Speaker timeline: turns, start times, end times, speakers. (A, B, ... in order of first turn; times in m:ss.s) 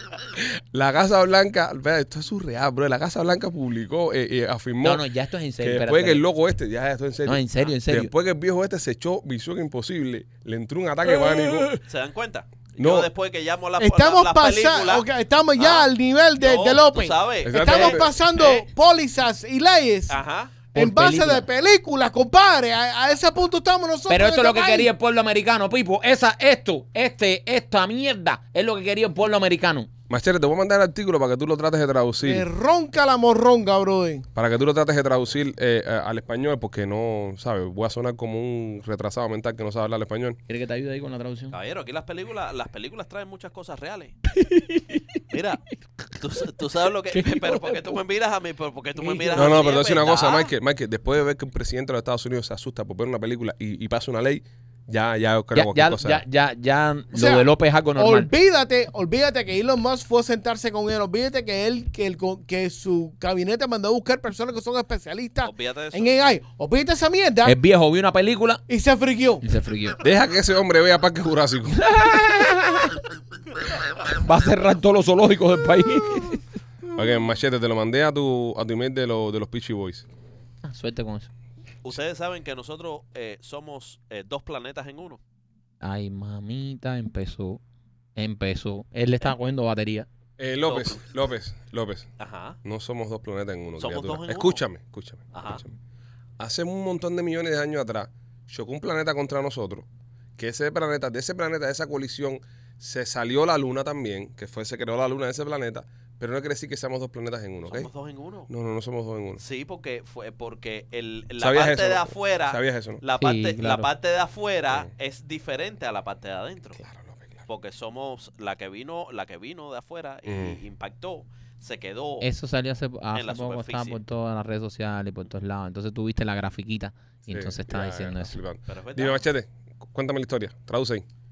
0:00.3-0:05.0 A
0:04.8-0:06.2 B
0:05.6-0:11.8 A
0:07.2-0:08.1 B
0:11.3-0:11.7 B
0:11.8-0:15.0 C
0:12.8-0:13.1 A
0:13.8-0:20.2 D
0:15.6-0:15.9 C
0:16.4-0:18.6 C
0:17.4-0:18.1 A
0:20.1-0:20.6 C
0:20.7-0:24.9 D
0:20.7-0:21.4 B
0:24.1-0:29.9 B
0:30.1-0:32.4 A
0:32.2-0:34.2 D
0:34.3-0:40.4 A
0:40.5-0:41.5 B
0:41.5-0:44.2 C
0:44.3-0:45.2 B
0:45.3-0:45.6 C
0:46.1-0:50.5 C
0:47.1-0:48.0 B
0:49.0-0:49.6 B
0:49.3-0:56.2 A
0:55.5-0:58.3 B
0:57.1-1:07.6 D
1:05.4-1:06.1 C
1:07.4-1:08.6 B
1:08.7-1:09.4 D
1:09.4-1:10.0 B
1:10.0-1:12.1 A
1:11.9-1:13.0 B
1:14.0-1:16.4 B
1:16.9-1:20.0 A
1:20.6-1:21.3 B
1:21.8-1:25.2 C
1:25.8-1:27.6 B
1:28.2-1:30.1 B
1:30.4-1:32.1 A
1:30.6-1:31.1 C
1:32.2-1:32.6 C
1:32.6-1:35.7 A
1:33.8-1:34.6 C
1:35.3-1:35.6 C
1:36.4-1:39.8 A
1:40.4-1:47.9 A
1:47.7-1:48.5 C
1:48.5-1:49.4 A
1:49.4-1:56.8 C
1:51.4-1:53.0 A
1:53.2-1:53.9 B
1:56.8-1:57.3 A
1:57.5-2:02.3 C
2:00.2-2:00.6 A
2:02.2-2:08.4 B
2:03.1-2:04.0 C
2:07.3-2:11.0 A
2:08.7-2:09.2 C